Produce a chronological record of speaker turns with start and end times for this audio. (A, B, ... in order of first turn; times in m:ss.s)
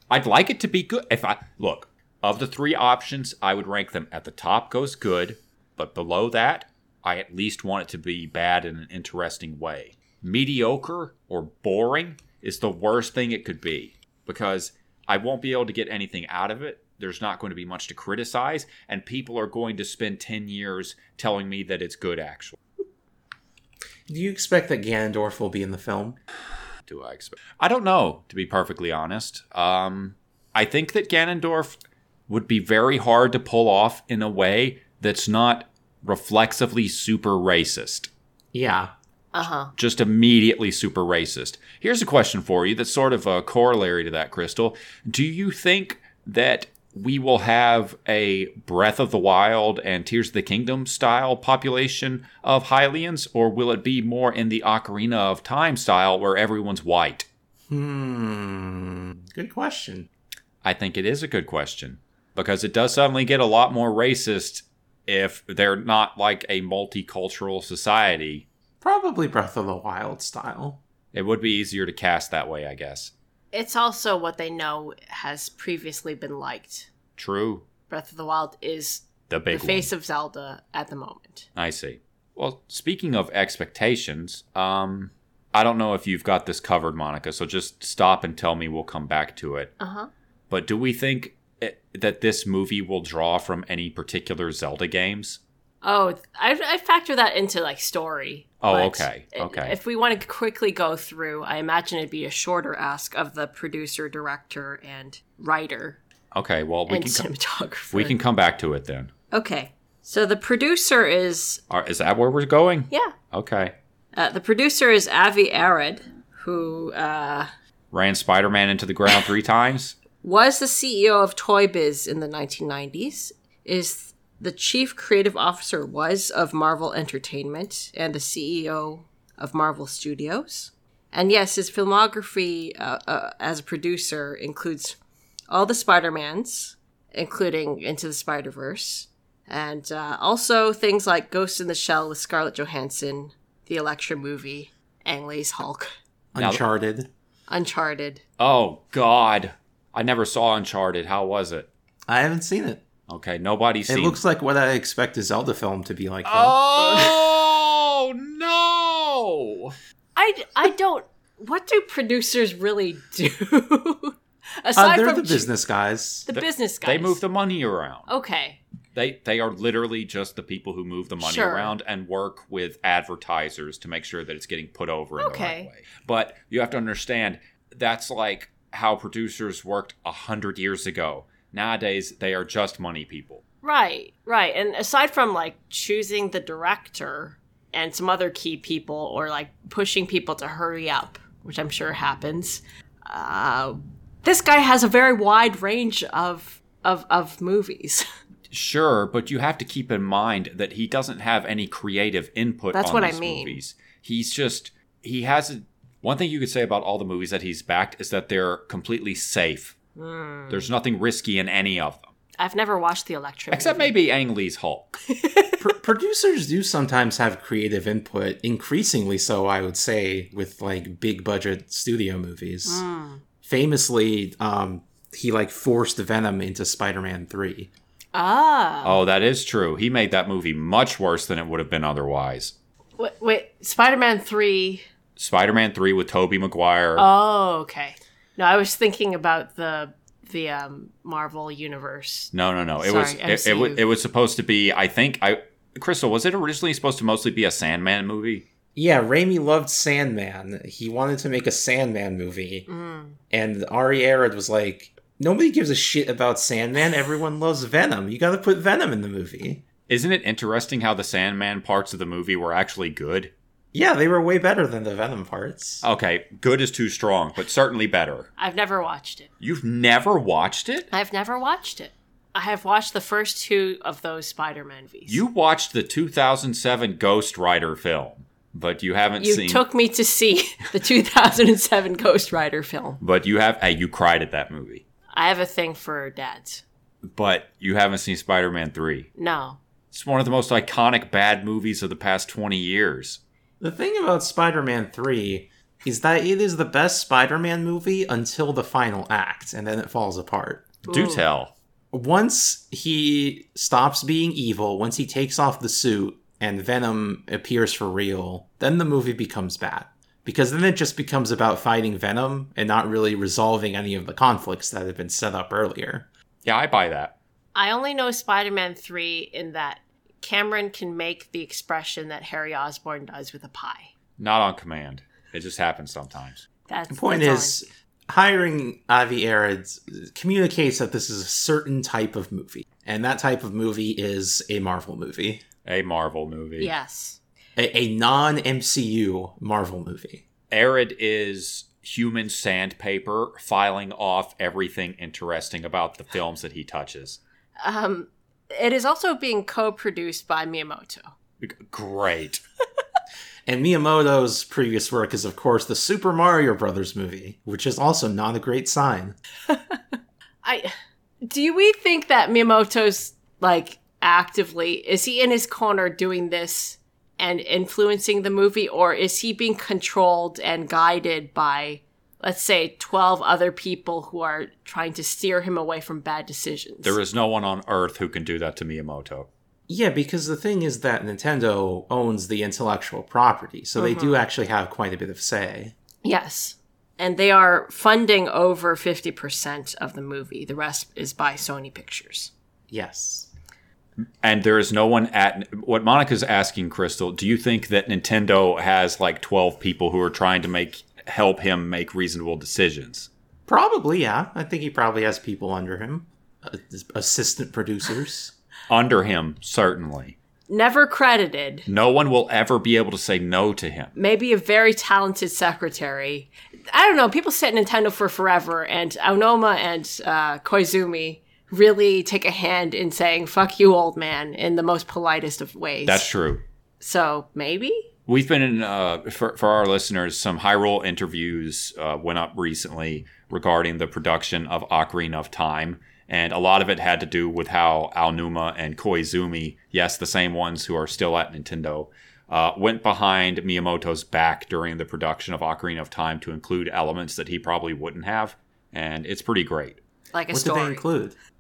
0:00.1-0:22.6 A
0:24.1-0:26.2 B
0:26.8-0:31.8 A
0:32.3-0:38.1 A
0:38.5-0:38.9 B
0:39.3-0:39.7 C
0:39.8-0:57.3 A
0:57.7-1:00.1 B
1:00.6-1:08.4 A
1:08.8-1:10.8 B
1:11.1-1:13.1 A
1:13.5-1:16.9 C
1:17.2-1:17.6 A
1:17.9-1:21.5 C
1:19.3-1:19.9 A
1:21.6-1:29.7 A
1:29.8-1:30.1 C
1:30.5-1:35.4 A
1:35.8-1:46.0 C
1:38.6-1:39.8 A
1:46.3-1:47.3 A
1:46.9-1:48.2 C
1:47.9-1:49.1 A
1:49.3-1:51.6 C
1:51.7-1:53.8 A
1:52.9-1:53.2 C
1:54.1-1:57.5 C
1:57.9-2:00.0 A
2:00.2-2:15.0 C
2:15.5-2:25.9 C
2:26.3-2:27.1 B
2:27.5-2:28.2 C
2:28.4-2:31.7 A
2:32.1-2:32.8 B
2:33.1-2:34.2 A
2:33.9-2:37.1 B
2:36.2-2:39.8 A
2:40.2-2:45.5 C
2:44.8-2:46.3 B
2:46.3-2:47.2 C
2:46.3-2:48.1 A
2:48.1-2:48.6 C
2:48.9-3:03.4 A
2:51.2-2:51.7 C
2:55.2-2:55.7 C
3:03.6-3:18.1 C
3:18.5-3:29.8 A
3:22.7-3:23.6 C
3:30.0-3:30.7 C
3:30.5-3:32.1 A
3:32.4-3:33.9 C
3:33.5-3:35.0 A
3:35.1-3:35.6 C
3:35.6-3:42.8 B
3:42.6-3:43.2 C
3:43.4-3:47.7 B
3:48.2-3:49.0 C
3:48.8-3:52.5 A
3:53.0-3:54.8 C
3:55.2-3:57.1 A
3:57.0-4:03.8 C
4:02.3-4:08.4 A
4:08.8-4:12.7 B
4:12.7-4:13.2 C
4:13.3-4:19.6 B
4:19.9-4:23.3 A
4:23.7-4:25.8 B
4:25.8-4:28.3 A
4:28.4-4:29.3 C
4:29.4-4:30.9 A
4:30.9-4:35.2 C
4:35.1-4:39.6 A
4:39.2-4:43.0 C
4:43.0-4:44.8 A
4:45.1-4:46.6 C
4:47.0-4:49.1 A
4:49.2-4:49.6 C
4:49.9-4:53.2 A
4:53.6-5:00.8 B
5:00.9-5:01.2 C
5:00.9-5:01.5 A
5:01.9-5:16.1 B
5:16.4-5:17.2 A
5:17.6-5:23.9 C
5:24.2-5:26.5 A
5:26.7-5:27.6 C
5:26.9-5:35.4 B
5:35.6-5:36.7 A
5:36.6-5:37.2 C
5:37.6-5:40.2 B
5:40.5-5:47.2 A
5:47.6-5:51.1 C
5:51.4-5:52.4 A
5:53.5-5:59.2 B
5:59.5-5:59.8 C
6:00.4-6:17.0 C
6:16.8-6:19.3 A
6:19.7-6:25.7 B
6:23.8-6:24.2 C
6:26.0-6:32.3 C
6:32.7-6:33.3 B
6:34.2-6:43.1 A
6:43.5-6:48.3 B
6:48.7-6:50.2 A
6:50.5-6:51.7 C
6:51.7-6:53.9 A
6:54.0-7:06.1 C
7:05.8-7:06.4 A
7:06.8-7:07.9 C
7:08.1-7:29.8 A
7:30.1-7:30.8 C
7:30.3-7:31.2 B